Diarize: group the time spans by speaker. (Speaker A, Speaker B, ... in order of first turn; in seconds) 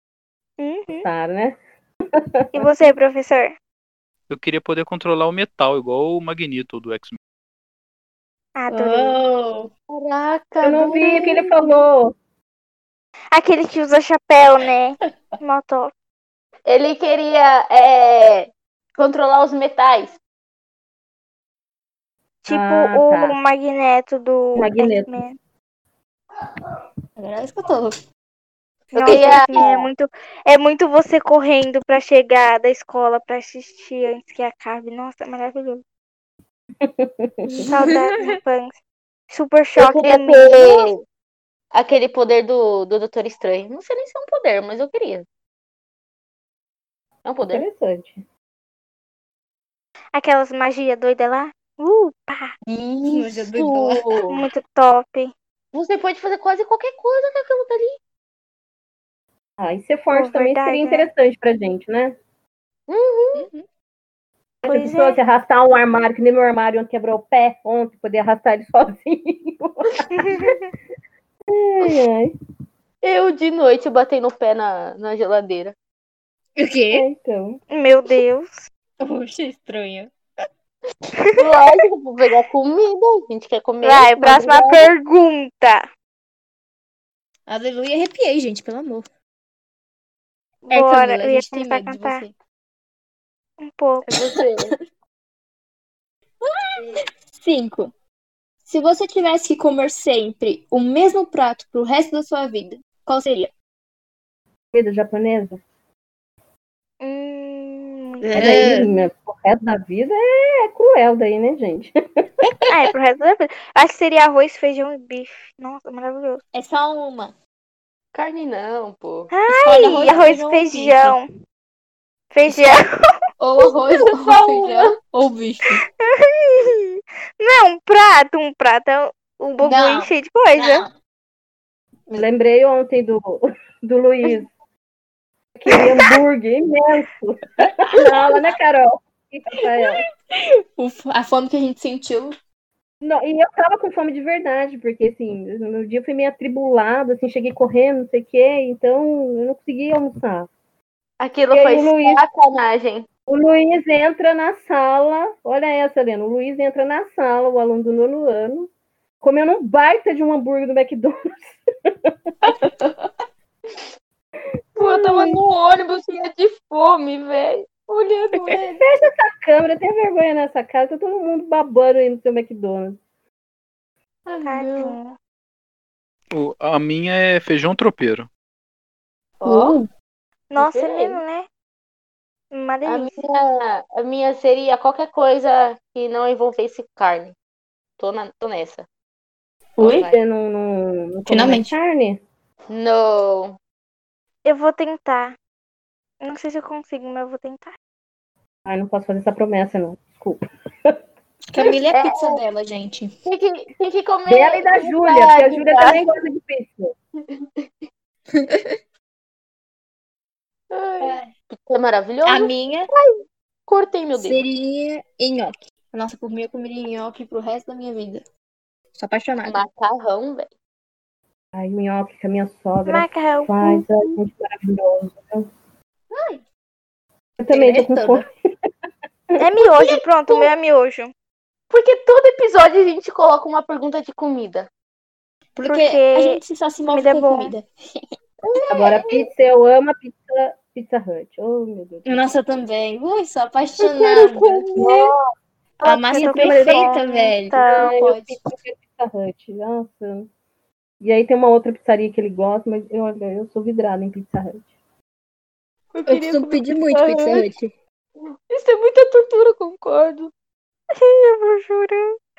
Speaker A: 0.6-1.1, 2.5-3.6, 8.6-9.2, 13.3-15.9, 22.5-25.4, 28.9-35.8, 37.7-38.8, 39.3-40.9, 50.1-52.5, 54.3-55.3, 60.1-61.1, 64.6-65.2, 70.1-70.7, 77.7-78.7, 81.2-81.7, 83.8-85.9, 90.7-92.2, 93.6-94.2, 107.0-108.7, 112.7-116.4, 119.3-121.3, 122.3-122.9, 126.0-130.8, 174.4-175.2, 180.5-181.5, 182.5-183.2, 194.4-195.4, 196.2-197.7, 222.9-224.1, 229.4-231.1, 235.7-237.5, 245.8-248.0, 260.9-262.2
Speaker B: 1.0-1.6, 2.2-2.8, 10.6-12.1, 22.5-23.4, 24.6-25.1, 36.8-37.7, 47.5-48.2, 59.6-62.2, 64.7-70.1, 71.5-72.3, 76.9-77.6, 104.7-105.6, 108.4-111.9, 132.1-134.5, 135.6-140.0, 143.0-150.5, 151.5-152.2, 153.3-158.7, 159.2-162.1, 164.8-165.2, 168.8-173.0, 190.0-192.2, 198.7-200.9, 204.3-206.9, 221.5-225.5, 227.4-228.3, 238.7-242.3, 244.8-245.2, 246.3-247.0, 247.6-250.3, 251.0-254.7
Speaker C: 4.3-7.2, 176.3-178.3
Speaker D: 8.7-9.7, 27.2-28.0, 29.1-29.3, 37.5-38.4, 53.0-54.1, 63.3-63.6, 76.6-77.1, 79.0-80.1, 87.5-89.1, 90.7-92.3, 94.2-94.8, 96.4-97.9, 98.7-103.5, 108.2-108.9, 116.5-117.3, 119.5-121.2, 122.5-122.8, 123.4-125.8, 129.6-130.9, 139.5-142.3, 162.4-163.1, 167.9-168.8, 179.4-179.9, 189.8-190.1, 191.3-191.8, 201.5-203.1, 208.3-208.8, 211.0-211.3, 212.2-212.9, 214.2-218.2, 218.9-219.6, 226.1-226.4, 227.5-228.3, 235.6-238.0, 242.1-245.1, 245.8-248.4, 256.1-257.7
Speaker E: 9.9-11.6, 16.7-20.2, 28.9-29.9, 39.8-41.0, 41.7-45.3, 47.2-47.6, 52.7-54.4, 55.7-58.0, 62.9-63.5, 73.0-75.8, 81.3-84.9, 94.1-94.7, 118.1-119.3, 124.1-125.0, 151.2-153.1, 164.8-168.6, 174.3-175.0, 179.4-179.8, 180.6-181.2, 182.8-187.3, 188.0-188.9, 189.8-190.2, 192.7-193.6, 201.9-202.4, 203.2-206.1, 207.3-207.7, 210.7-214.4, 219.4-220.5, 229.8-230.5, 231.7-234.7, 238.4-239.3, 243.8-244.8, 255.9-257.5, 258.3-260.3